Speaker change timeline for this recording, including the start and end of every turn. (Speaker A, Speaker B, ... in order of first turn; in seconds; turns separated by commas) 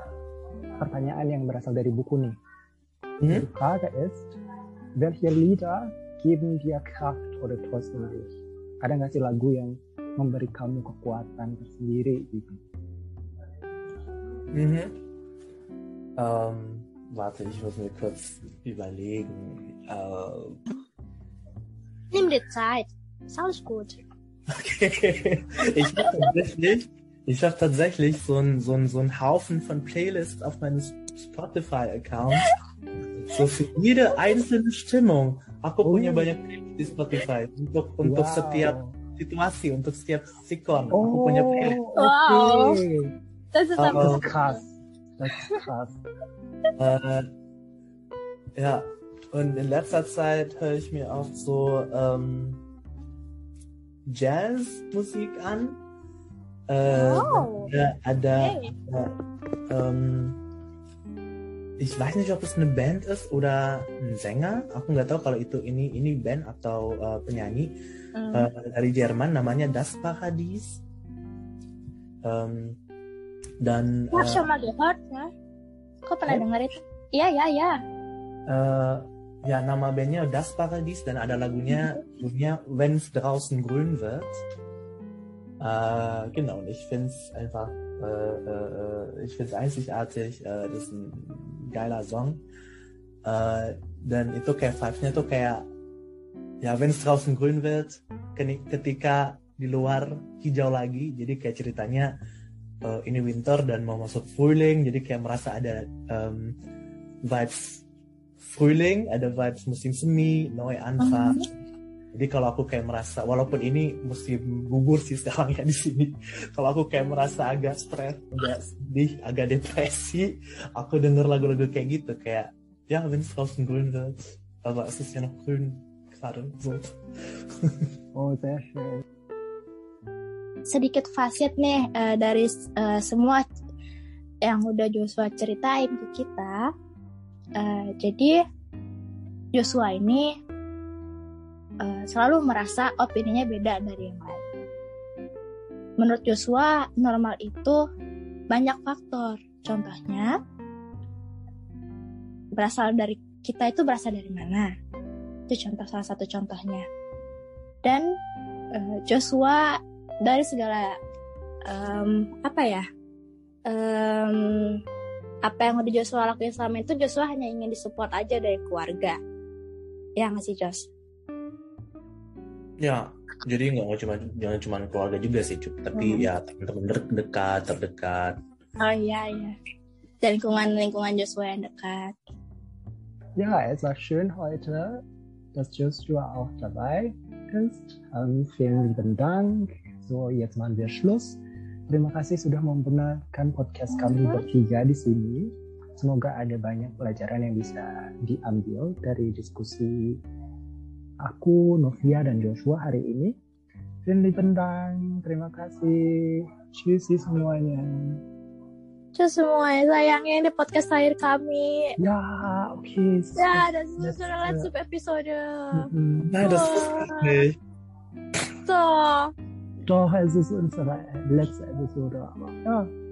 Speaker A: 0.8-2.4, Speaker B: 3.2-3.5, Speaker A: 3.3-4.3, Speaker A: 5.0-12.6, Speaker B: 14.5-14.9, Speaker B: 16.2-20.6, Speaker C: 22.1-24.0, Speaker B: 24.5-32.5, Speaker C: 25.9-26.3, Speaker B: 33.3-41.8, Speaker A: 35.8-36.3, Speaker A: 38.0-39.0, Speaker A: 40.9-43.1, Speaker C: 42.0-42.8, Speaker C: 43.5-44.6, Speaker B: 43.8-44.3, Speaker A: 43.9-46.0, Speaker B: 46.8-47.3, Speaker B: 48.6-52.6, Speaker B: 54.1-55.8, Speaker B: 56.7-59.2, Speaker C: 56.9-57.7, Speaker C: 58.4-58.7, Speaker B: 59.7-60.4, Speaker B: 61.8-67.7, Speaker C: 68.2-68.5, Speaker B: 68.3-70.8, Speaker B: 72.2-72.8, Speaker B: 73.6-74.5, Speaker C: 74.1-75.3, Speaker C: 76.0-77.8, Speaker B: 78.5-84.4, Speaker C: 81.7-82.0, Speaker B: 85.6-92.4, Speaker B: 93.2-95.7, Speaker B: 96.6-102.1, Speaker B: 102.8-106.5, Speaker B: 107.2-107.8, Speaker B: 108.4-111.4, Speaker C: 111.0-111.5, Speaker B: 112.1-127.9, Speaker A: 128.2-129.1, Speaker C: 130.7-133.5, Speaker C: 134.4-136.7, Speaker C: 137.6-138.4, Speaker C: 139.5-140.3, Speaker C: 141.8-144.5, Speaker C: 146.0-147.8, Speaker C: 148.5-150.4, Speaker C: 152.6-154.7, Speaker C: 155.5-156.9, Speaker C: 157.8-158.2, Speaker C: 158.7-161.0, Speaker C: 161.7-162.9, Speaker C: 163.7-164.8, Speaker C: 165.4-169.2, Speaker C: 170.2-170.9, Speaker B: 172.8-178.4, Speaker C: 175.9-176.3, Speaker C: 178.8-179.6, Speaker C: 180.2-182.2, Speaker A: 183.4-185.0, Speaker A: 185.6-191.4, Speaker A: 191.9-200.2, Speaker C: 194.0-194.4, Speaker A: 201.2-203.3, Speaker A: 204.1-208.2, Speaker C: 209.2-212.0, Speaker A: 212.0-214.7, Speaker C: 213.4-217.4, Speaker A: 215.7-216.3, Speaker B: 216.3-217.6, Speaker C: 218.6-219.3, Speaker A: 219.9-222.9